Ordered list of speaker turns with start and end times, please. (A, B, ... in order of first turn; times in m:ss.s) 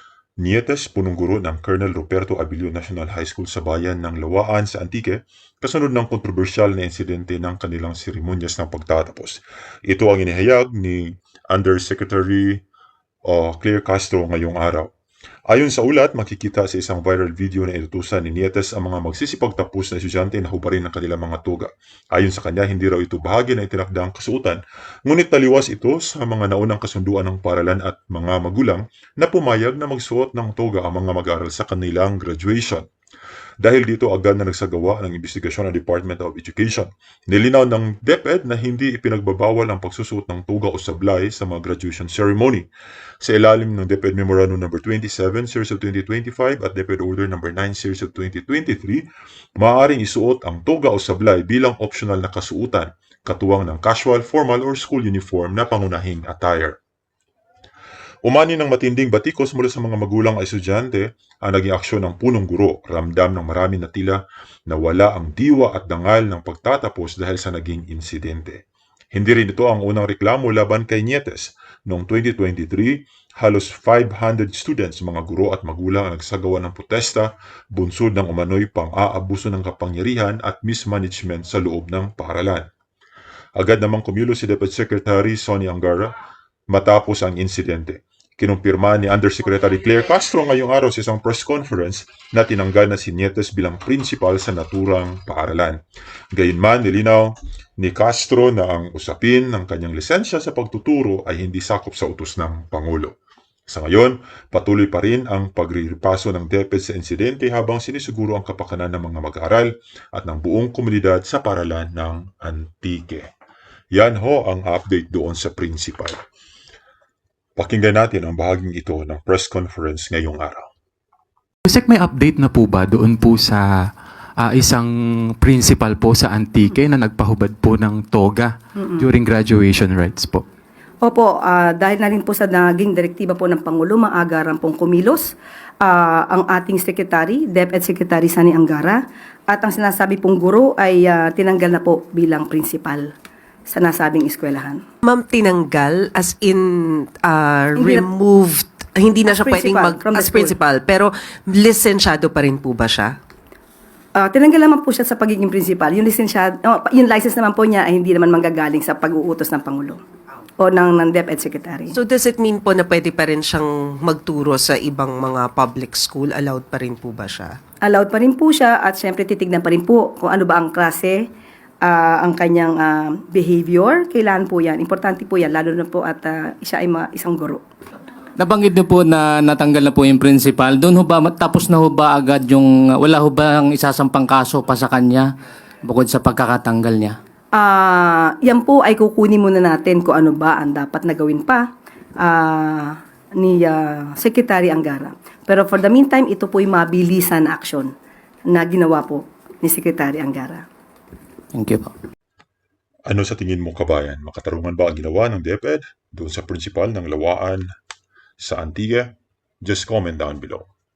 0:00.4-0:12.6 A
0:13.3-0:14.9 A
0:15.5-0:32.8 A
0:33.6-0:42.7 A
0:43.2-0:49.1 A
0:49.6-0:56.8 A
0:58.2-1:08.6 A
1:09.1-1:22.7 A
1:23.6-1:26.1 A
1:26.7-1:35.8 A
1:36.3-1:43.2 A
1:43.7-1:53.3 A
1:53.9-1:56.2 A
1:57.6-2:00.7 A
2:01.7-2:03.7 B
2:04.4-2:10.4 B
2:11.0-2:23.1 C
2:23.7-2:24.8 C
2:25.0-2:33.2 D
2:27.8-2:28.1 C
2:29.2-2:30.6 C
2:34.2-2:40.0 C
2:40.6-2:41.9 C
2:41.9-2:47.6 D
2:47.8-2:51.2 C
2:51.8-2:57.6 C
2:58.4-3:05.3 E
3:05.8-3:07.2 E
3:07.5-3:11.7 C
3:12.2-3:17.9 C
3:18.5-3:20.6 C
3:21.5-3:21.9 E
3:23.1-3:27.7 A
3:28.4-3:30.7 A